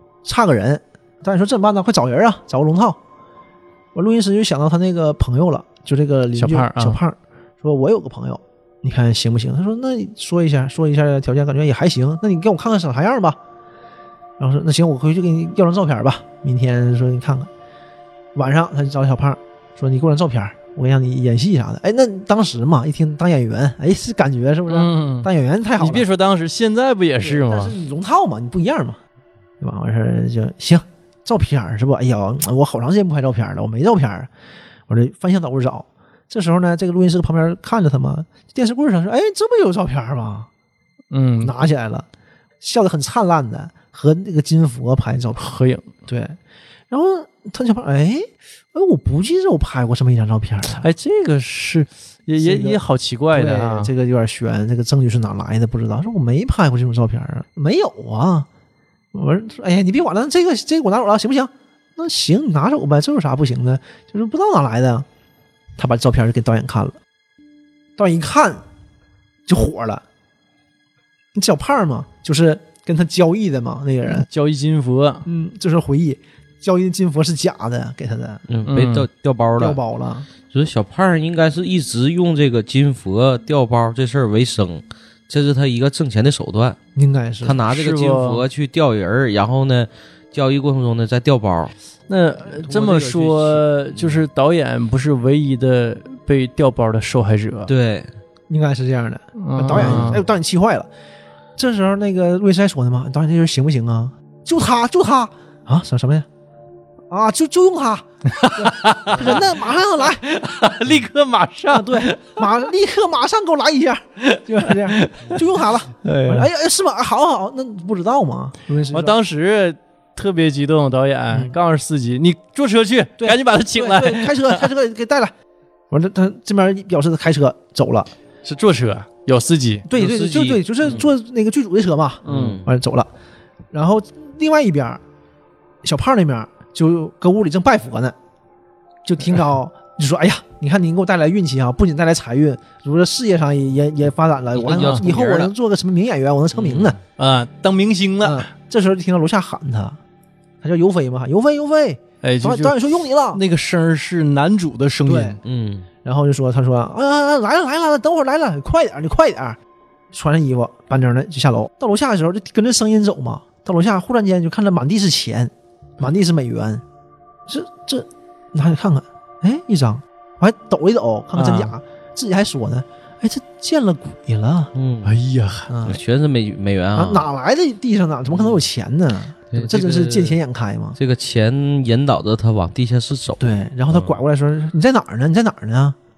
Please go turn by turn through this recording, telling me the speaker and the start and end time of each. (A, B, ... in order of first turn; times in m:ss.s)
0:00.2-0:03.0 A
0:03.9-0:13.4 A
0:06.4-0:07.0 B
0:14.4-0:17.5 A
0:18.3-0:26.1 A
0:24.7-0:25.3 B
0:25.8-0:27.7 B
0:27.2-0:29.0 A
0:29.6-0:34.3 A
0:34.9-0:40.5 A
0:41.1-0:41.5 B
0:41.4-0:42.1 A
0:42.6-0:45.5 A
0:45.4-0:45.9 B
0:46.0-0:46.4 A
0:46.9-0:50.9 A
0:50.8-0:53.9 B
0:52.4-0:58.5 A
0:59.1-1:05.0 A
1:05.8-1:07.0 A
1:08.0-1:08.6 A
1:09.5-1:10.0 A
1:11.3-1:14.3 A
1:14.1-1:15.2 B
1:15.2-1:18.4 A
1:18.5-1:19.8 C
1:18.7-1:19.1 B
1:19.6-1:20.3 A
1:20.5-1:26.8 C
1:27.0-1:27.6 A
1:27.4-1:31.7 C
1:27.7-1:28.4 B
1:32.1-1:37.7 B
1:32.5-1:34.2 C
1:37.7-1:38.1 C
1:38.5-1:40.9 A
1:39.4-1:40.2 B
1:39.7-1:40.2 C
1:41.6-1:46.3 A
1:47.1-1:50.2 A
1:48.3-1:52.5 B
1:51.7-1:59.2 A
1:54.6-1:55.5 B
1:56.0-1:56.5 B
1:58.9-2:04.7 B
2:01.3-2:01.6 A
2:03.2-2:05.3 A
2:05.9-2:08.1 A
2:08.4-2:09.9 B
2:09.9-2:13.1 A
2:09.9-2:11.1 C
2:12.2-2:12.6 B
2:12.2-2:12.7 C
2:13.7-2:15.0 A
2:15.8-2:18.1 A
2:19.0-2:27.0 A
2:24.5-2:25.5 C
2:26.5-2:27.0 C
2:27.2-2:28.5 B
2:28.2-2:30.0 A
2:30.6-2:33.4 A
2:32.2-2:32.8 B
2:33.3-2:35.4 B
2:35.0-2:35.4 A
2:35.4-2:35.9 C
2:36.0-2:39.6 A
2:40.1-2:46.8 A
2:47.5-2:54.7 A
2:51.3-2:51.7 B
2:54.7-2:55.2 C
2:55.0-2:55.7 B
2:55.7-2:56.0 A
2:55.8-2:57.3 C
2:56.9-3:01.0 A
2:58.3-2:58.6 C
2:59.5-3:00.4 C
3:01.0-3:04.2 C
3:03.4-3:06.0 A